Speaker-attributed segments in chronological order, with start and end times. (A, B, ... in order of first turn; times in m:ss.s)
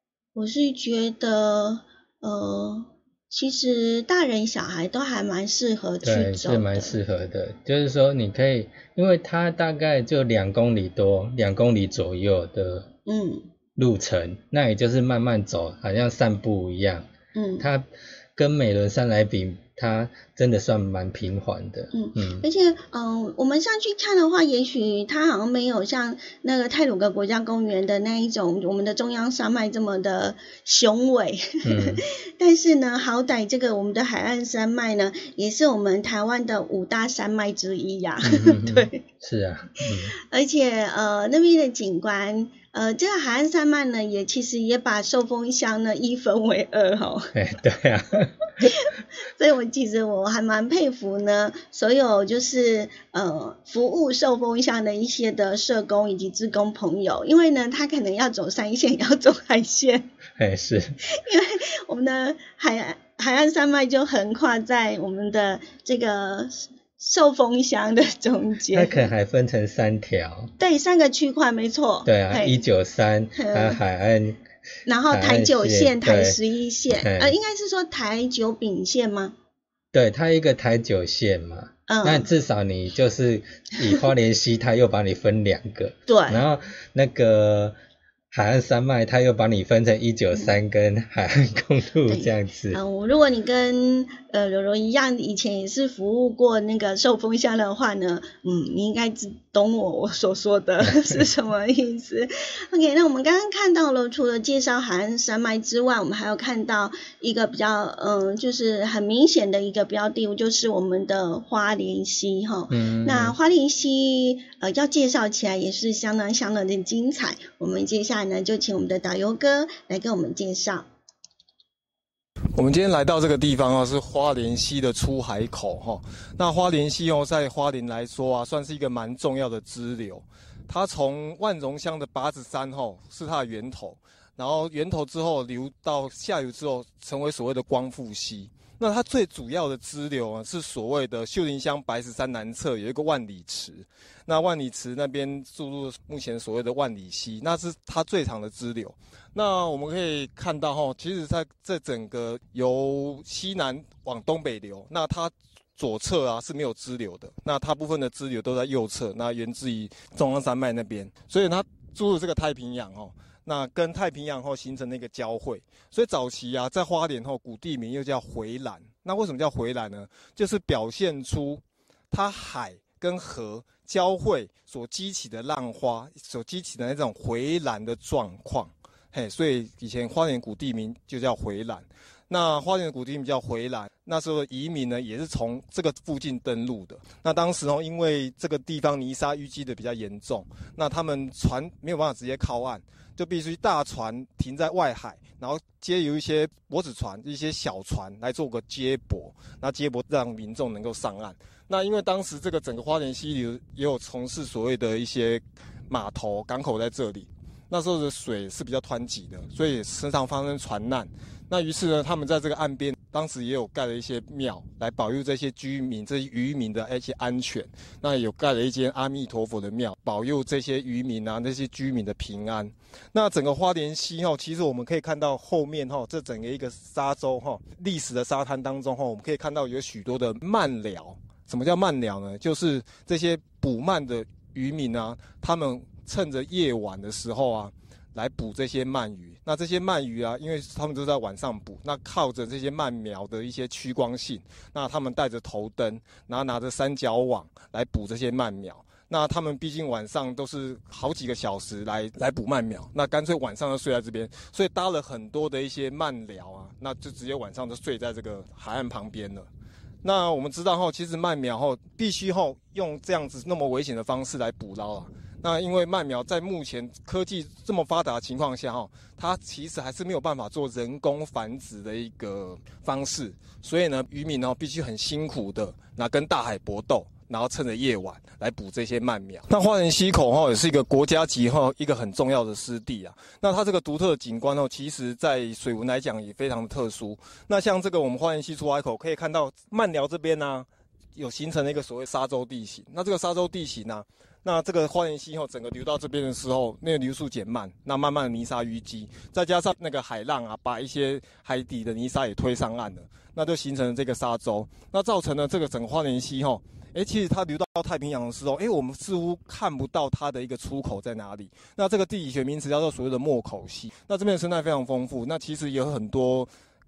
0:00.3-0:07.0 A
0:06.0-0:12.9 B
0:13.0-0:13.4 A
0:13.8-0:22.4 B
0:17.3-0:17.6 A
0:21.9-0:39.0 A
0:31.6-0:32.0 B
0:38.2-0:40.1 B
0:39.9-0:47.3 A
0:47.3-0:48.7 B
0:48.6-1:00.1 A
1:00.4-1:01.0 B
1:01.1-1:09.1 A
1:08.7-1:10.5 B
1:10.6-1:12.6 A
1:12.0-1:14.4 B
1:13.3-1:13.8 A
1:14.8-1:19.3 A
1:15.1-1:16.4 B
1:17.0-1:17.4 B
1:19.9-1:27.8 B
1:21.9-1:22.3 A
1:26.1-1:26.4 A
1:28.3-1:32.8 B
1:32.1-2:00.9 A
1:40.8-1:41.2 B
1:52.7-1:53.4 B
2:02.5-4:19.5 C
4:20.0-5:16.5 C